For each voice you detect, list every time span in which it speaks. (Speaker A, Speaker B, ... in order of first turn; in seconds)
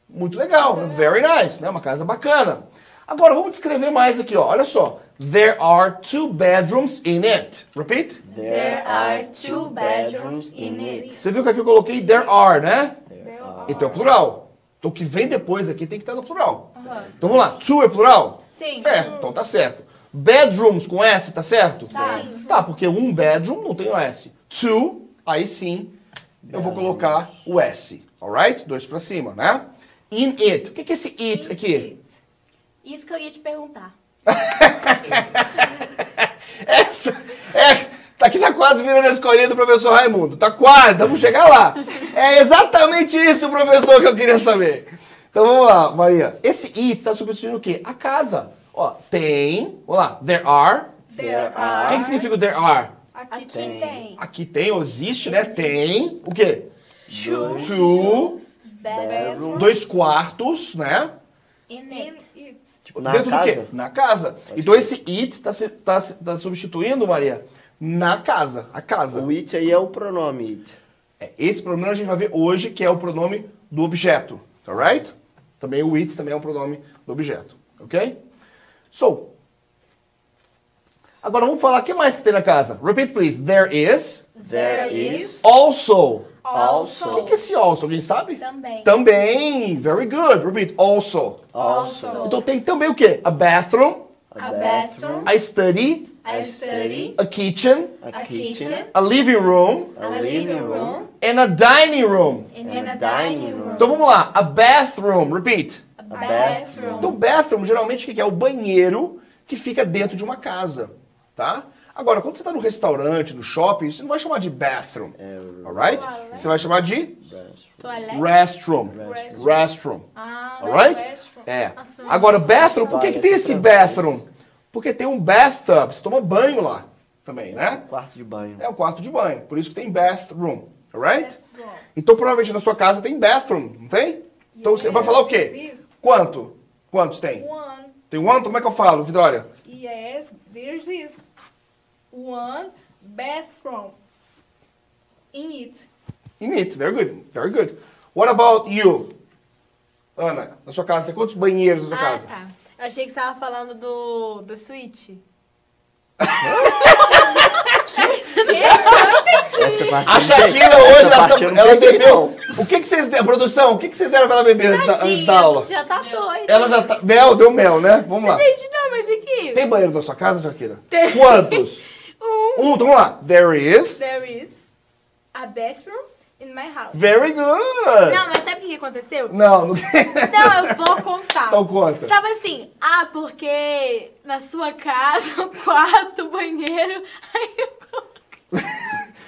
Speaker A: 0.1-8.2, 11.2-13.0, 13.7-25.9, 26.5-31.9, 34.3-50.9, 51.9-52.9, 54.2-56.7, 57.5-58.4, 59.5-61.1, 63.0-69.3, 71.2-78.2, 78.9-79.3, 81.2-84.3, 85.4-86.3, 87.1-91.5, 92.2-94.0, 95.2-96.2, 97.1-98.0, 98.9-100.0, 101.2-102.5, 103.8-105.8, 107.0-117.1, 118.1-120.0, 120.6-127.8, 128.6-131.3, 131.9-137.4, 138.1-139.5, 146.4-149.1, 150.2-152.3, 156.2-158.0, 158.6-159.1, 160.0-165.7, 166.4-168.4, 169.5-171.8, 172.6-174.0, 176.9-178.2, 179.3-182.1, 188.5-189.0
Speaker B: 8.2-11.2, 13.1-14.0, 16.8-17.6, 26.4-27.4, 51.1-52.1, 53.5-54.0, 57.1-58.0, 58.9-59.8, 62.9-63.7, 64.5-64.9, 69.1-70.8, 84.4-85.4, 86.5-87.4, 91.5-92.4, 94.3-95.3, 96.2-97.2, 98.0-98.9, 99.9-101.0, 102.6-104.0, 106.1-107.2, 115.2-118.1, 118.9-119.6, 122.6-124.2, 127.5-128.7, 134.8-135.2, 159.5-162.5
Speaker C: 8.4-11.2, 16.8-17.1, 18.6-19.1, 21.9-22.3, 32.8-33.9, 53.3-54.2, 55.3-55.7, 58.6-59.8, 61.7-62.2, 84.5-85.3, 88.4-89.0, 91.6-92.4, 94.4-95.2, 96.4-96.9, 98.1-98.8, 102.5-103.9, 106.0-107.0
Speaker D: 8.5-8.9, 21.9-22.4, 31.6-31.9, 53.6-53.9, 57.3-57.5, 84.5-85.4, 91.6-92.3, 94.4-95.2, 96.2-97.1, 98.1-98.9, 100.0-101.1, 102.7-103.8, 106.2-106.8, 117.8-118.2, 120.2-121.0, 121.8-122.9, 151.9-155.2, 156.8-160.0, 164.6-166.9, 168.2-169.6, 170.9-171.6, 172.2-172.6, 174.0-174.5, 175.3-177.0, 178.0-179.3, 180.3-188.0
Speaker E: 13.2-14.1, 18.9-19.3, 51.1-52.3, 53.1-54.0, 57.2-58.2, 59.0-59.7, 61.9-62.7, 84.6-85.1, 86.4-87.4, 106.2-106.7, 119.0-119.6, 121.0-121.4, 131.2-131.8, 134.6-135.8, 137.4-138.0, 139.6-141.2, 142.1-143.9, 145.3-145.8